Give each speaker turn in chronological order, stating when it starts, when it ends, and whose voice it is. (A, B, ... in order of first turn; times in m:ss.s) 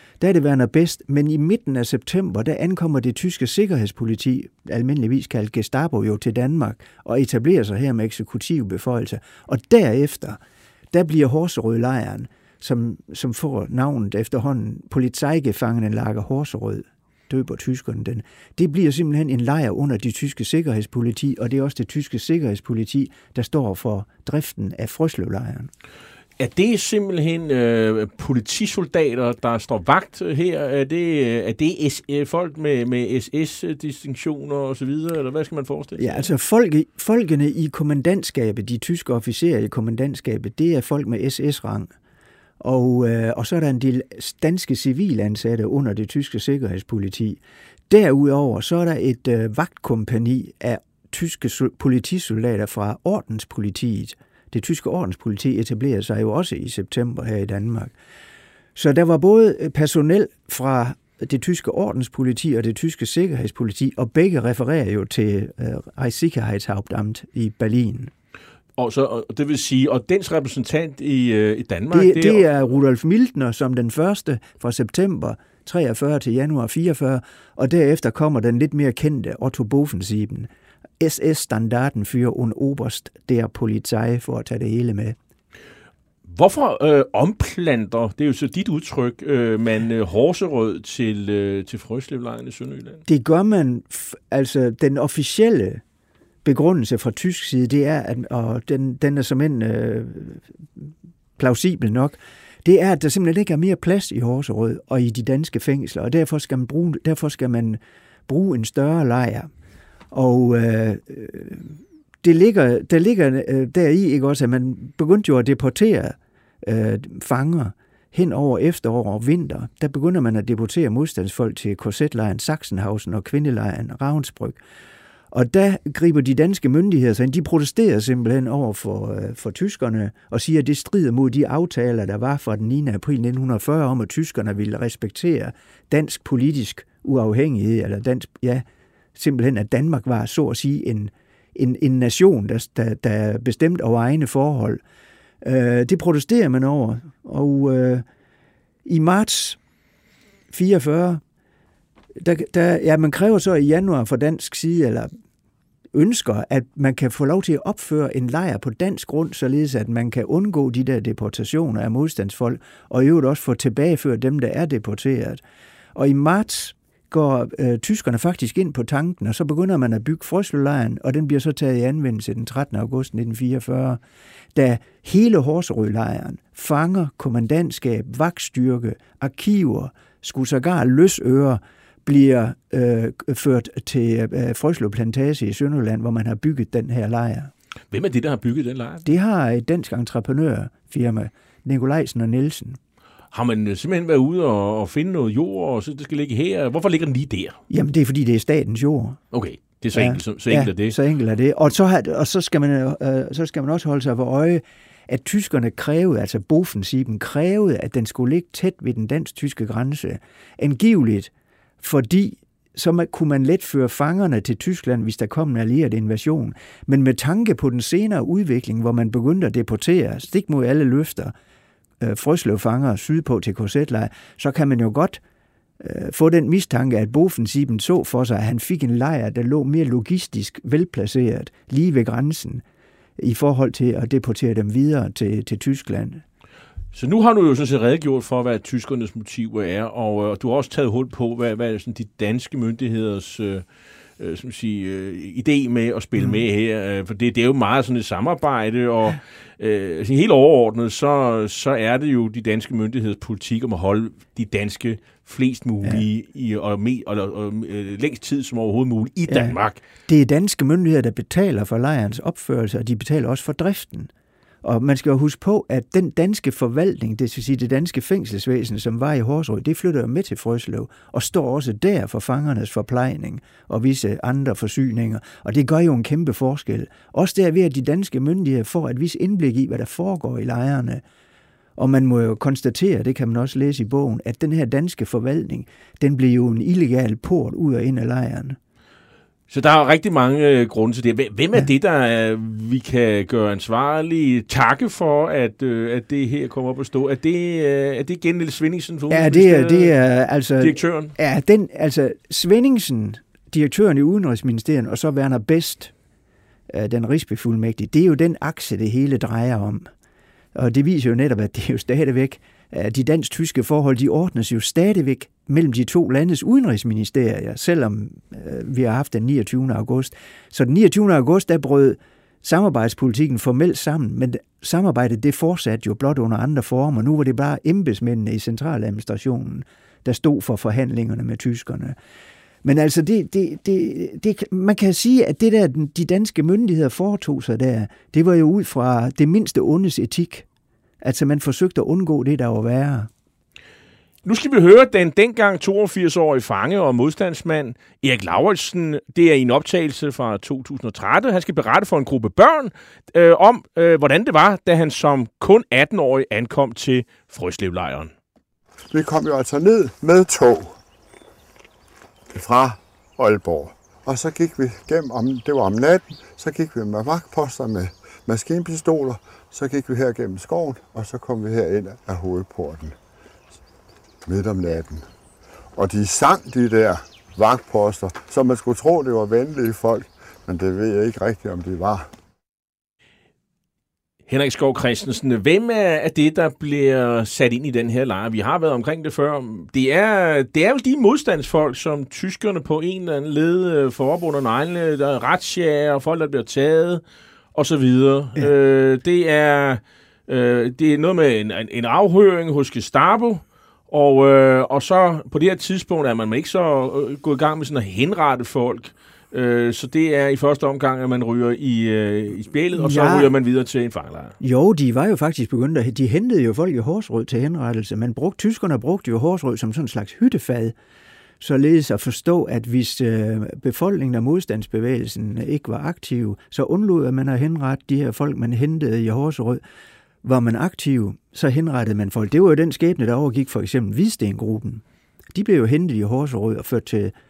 0:00.2-0:10.4 A
0:10.9-0:25.7 A
0:26.4-0:36.3 B
0:36.0-0:41.9 A
0:42.6-0:57.9 A
0:58.7-1:08.1 A
1:08.8-1:12.5 B
1:11.9-1:25.2 A
1:26.2-1:33.0 B
1:33.1-1:35.8 A
1:36.4-1:49.5 A
1:50.1-2:04.6 A
2:05.3-2:24.8 A
2:25.4-2:28.0 A
2:28.8-2:29.6 A
2:30.5-2:31.2 A
2:32.2-2:35.1 A
2:35.9-2:45.4 A
2:45.9-2:54.0 A
2:54.5-3:07.5 A
3:07.9-3:09.1 B
3:09.0-3:12.8 A
3:13.3-3:17.6 B
3:17.7-3:19.2 A
3:19.3-3:21.0 B
3:19.9-3:41.3 A
3:42.0-3:45.2 A
3:45.8-3:52.6 A
3:53.2-3:56.2 A
3:56.9-4:03.6 B
4:04.2-4:19.8 B
4:19.3-4:24.1 A
4:24.6-4:41.0 A
4:41.8-4:48.6 A
4:49.5-5:00.0 B
4:59.1-5:05.9 A
5:00.6-5:01.1 B
5:06.7-5:09.9 A
5:10.5-5:32.0 A
5:32.6-5:40.4 A
5:41.0-5:43.1 A
5:44.2-5:58.1 B
5:58.9-6:00.8 C
6:02.3-6:13.0 C
6:14.2-6:15.0 C
6:15.8-6:22.1 C
6:24.3-6:37.0 B
6:37.5-6:54.4 B
6:52.7-6:53.3 A
6:54.4-7:00.7 A
7:01.4-7:09.6 A
7:10.2-7:17.1 A